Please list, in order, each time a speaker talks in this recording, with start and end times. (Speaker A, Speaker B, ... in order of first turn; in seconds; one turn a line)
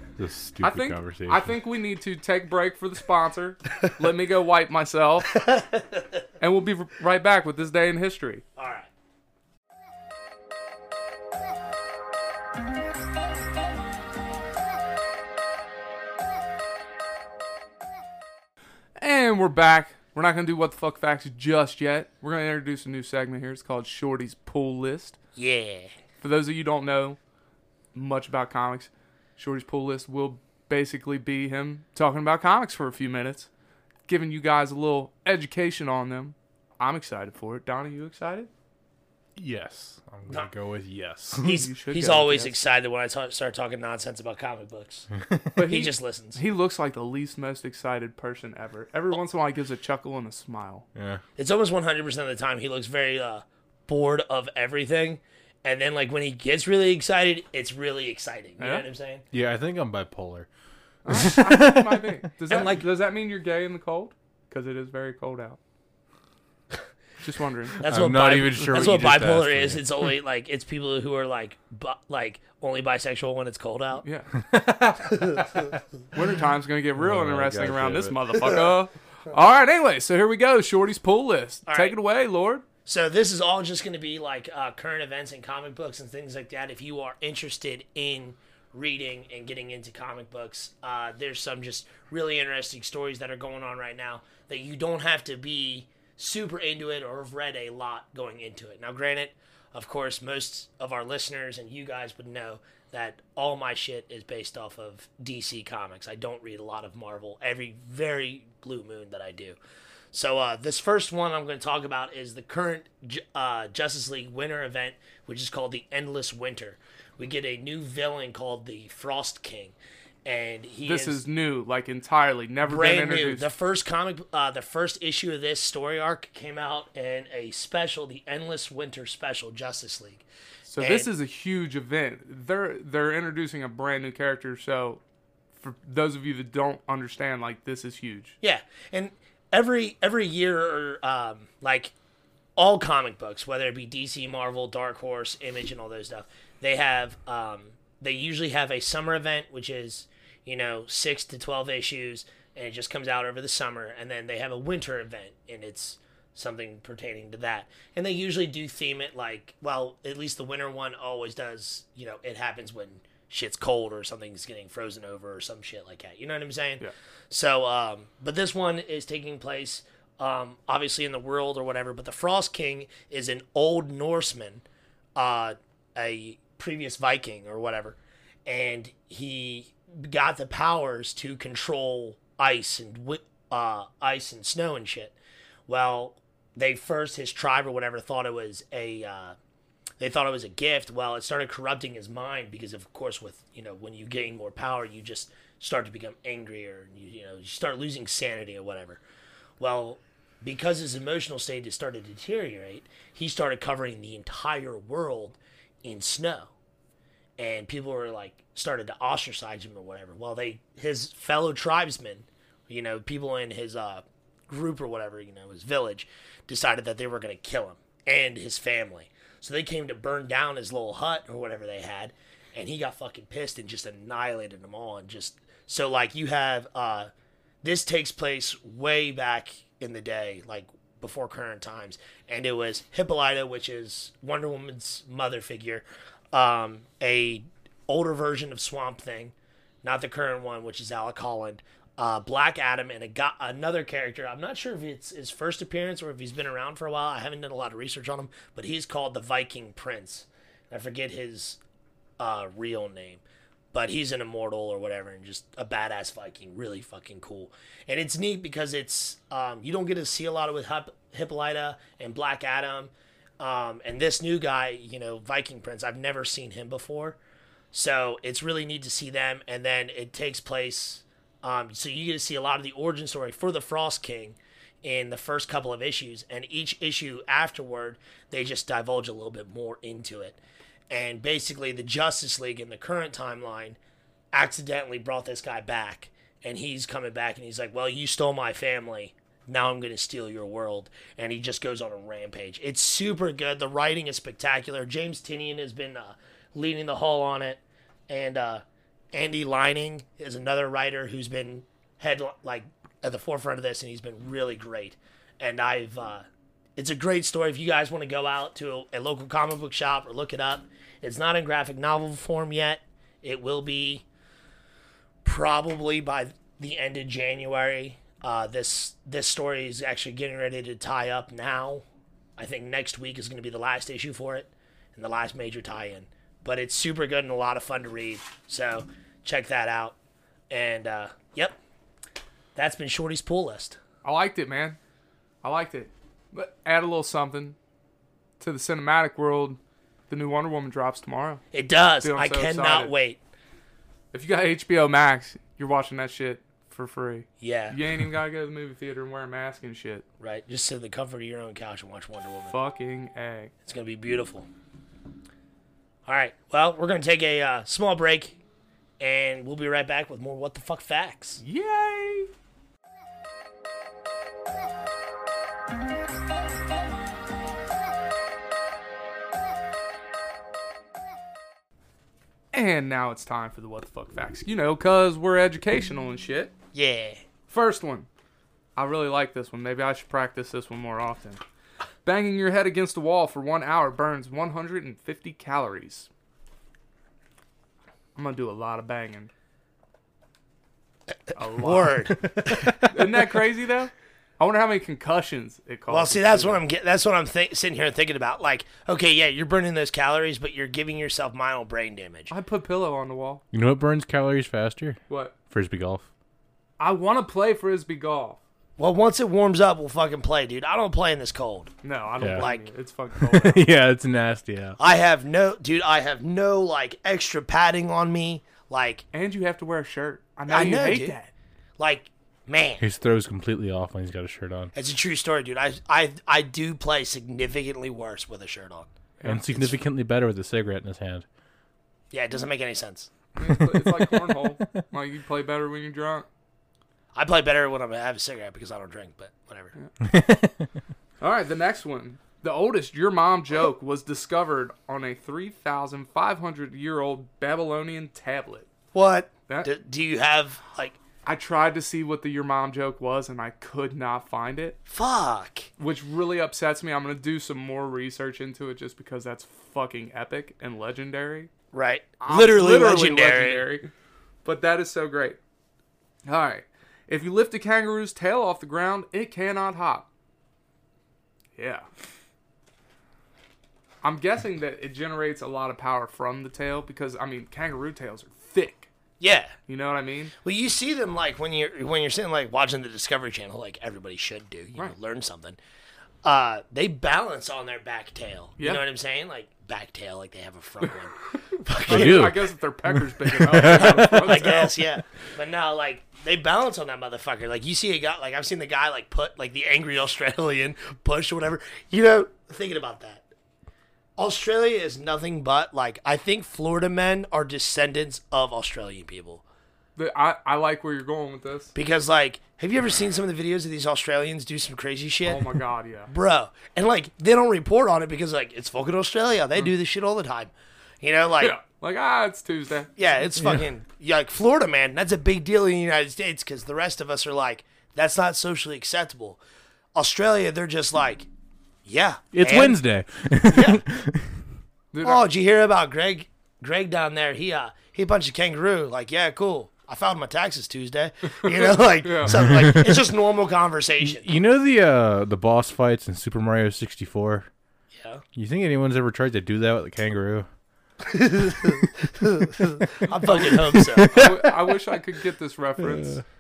Speaker A: 0.2-1.5
Speaker B: 0.6-5.4
Speaker C: 5.5-6.0
Speaker B: 6.4-8.4
Speaker C: 8.6-8.9
Speaker B: 19.0-25.2
Speaker C: 25.4-25.9
Speaker B: 26.2-27.2
Speaker B: 27.9-33.5
Speaker B: 34.1-38.5
Speaker A: 39.4-41.6
Speaker C: 41.4-45.1
Speaker B: 41.5-42.5
Speaker B: 45.5-50.9
Speaker C: 45.7-46.4
Speaker A: 51.0-51.2
Speaker C: 51.4-59.2
Speaker B: 58.6-58.9
Speaker A: 59.3-60.5
Speaker B: 61.0-65.6
Speaker A: 61.1-62.1
Speaker C: 62.5-62.9
Speaker B: 67.2-67.8
Speaker C: 67.8-74.0
Speaker A: 67.8-69.9
Speaker B: 74.0-74.4
Speaker C: 75.0-75.6
Speaker B: 76.1-82.6
Speaker A: 77.0-78.4
Speaker C: 81.7-81.9
Speaker C: 82.9-109.6
Speaker C: 110.1-119.7
Speaker C: 120.2-121.2
Speaker B: 120.9-123.5
Speaker C: 122.7-130.2
Speaker B: 130.7-135.0
Speaker C: 130.8-131.1
Speaker B: 135.6-138.4
Speaker C: 138.4-141.9
Speaker C: 142.6-174.6
Speaker C: 175.2-185.1
Speaker C: 185.7-189.4
Speaker C: 190.0-199.0
Speaker C: 199.6-206.5
Speaker C: 207.4-227.1
Speaker C: 227.6-251.6
Speaker C: 252.2-253.2
Speaker C: 253.7-267.2
Speaker C: 267.7-280.4
Speaker C: 280.9-283.8
Speaker C: 284.3-306.2
Speaker C: 306.8-314.0
Speaker C: 315.2-321.8
Speaker C: 322.4-329.9
Speaker C: 330.5-331.6
Speaker C: 332.6-333.8
Speaker B: 334.0-334.8
Speaker B: 335.4-337.6
Speaker B: 338.4-341.4
Speaker C: 341.5-343.2
Speaker B: 342.0-342.9
Speaker B: 344.1-350.0
Speaker C: 347.4-347.8
Speaker C: 350.2-352.5
Speaker B: 352.5-353.5
Speaker C: 353.7-354.5
Speaker C: 356.1-358.4
Speaker C: 359.0-361.4
Speaker B: 361.4-362.3
Speaker B: 372.5-376.5
Speaker C: 376.7-377.2
Speaker B: 377.5-378.1
Speaker B: 378.8-381.4
Speaker B: 382.0-386.1
Speaker B: 388.1-389.3
Speaker B: 391.4-392.1
Speaker C: 391.6-392.8
Speaker B: 392.7-396.6
Speaker C: 395.9-402.3
Speaker B: 402.3-403.4
Speaker A: 403.5-405.0
Speaker A: 405.5-406.1
Speaker B: 406.8-408.4
Speaker C: 408.8-411.7
Speaker B: 411.8-413.7
Speaker A: 412.2-412.5
Speaker C: 412.4-412.7
Speaker A: 413.2-414.8
Speaker C: 414.8-419.1
Speaker B: 419.1-421.3
Speaker C: 420.5-421.1
Speaker C: 421.8-422.8
Speaker A: 422.8-424.7
Speaker C: 424.8-428.9
Speaker B: 429.2-429.5
Speaker A: 429.2-431.2
Speaker C: 429.4-429.8
Speaker C: 432.1-433.1
Speaker B: 433.4-436.3
Speaker A: 433.4-434.4
Speaker C: 437.1-439.7
Speaker A: 440.0-440.7
Speaker B: 441.2-448.7
Speaker C: 448.9-451.0
Speaker B: 451.2-454.8
Speaker C: 454.9-455.7
Speaker B: 455.8-461.5
Speaker C: 461.7-463.7
Speaker B: 462.2-463.9
Speaker B: 464.4-465.4
Speaker B: 466.2-470.1
Speaker B: 471.6-471.9
Speaker B: 474.0-478.9
Speaker C: 479.2-479.6
Speaker B: 479.7-480.3
Speaker C: 480.4-485.6
Speaker C: 486.2-492.4
Speaker A: 491.9-494.5
Speaker B: 491.9-494.7
Speaker C: 493.6-503.2
Speaker C: 504.2-509.4
Speaker B: 510.0-511.7
Speaker C: 511.8-515.5
Speaker B: 515.2-516.1
Speaker C: 516.1-521.6
Speaker B: 521.4-522.9
Speaker C: 523.0-529.4
Speaker A: 523.4-523.7
Speaker C: 530.0-531.3
Speaker C: 531.9-532.8
Speaker A: 532.3-534.5
Speaker C: 533.5-533.8
Speaker B: 534.9-535.2
Speaker C: 535.0-544.3
Speaker B: 541.3-542.3
Speaker A: 542.3-543.0
Speaker A: 544.0-547.5
Speaker C: 547.9-548.2
Speaker A: 548.4-550.5
Speaker C: 551.0-554.5
Speaker A: 552.6-554.3
Speaker B: 553.2-556.2
Speaker A: 555.8-556.2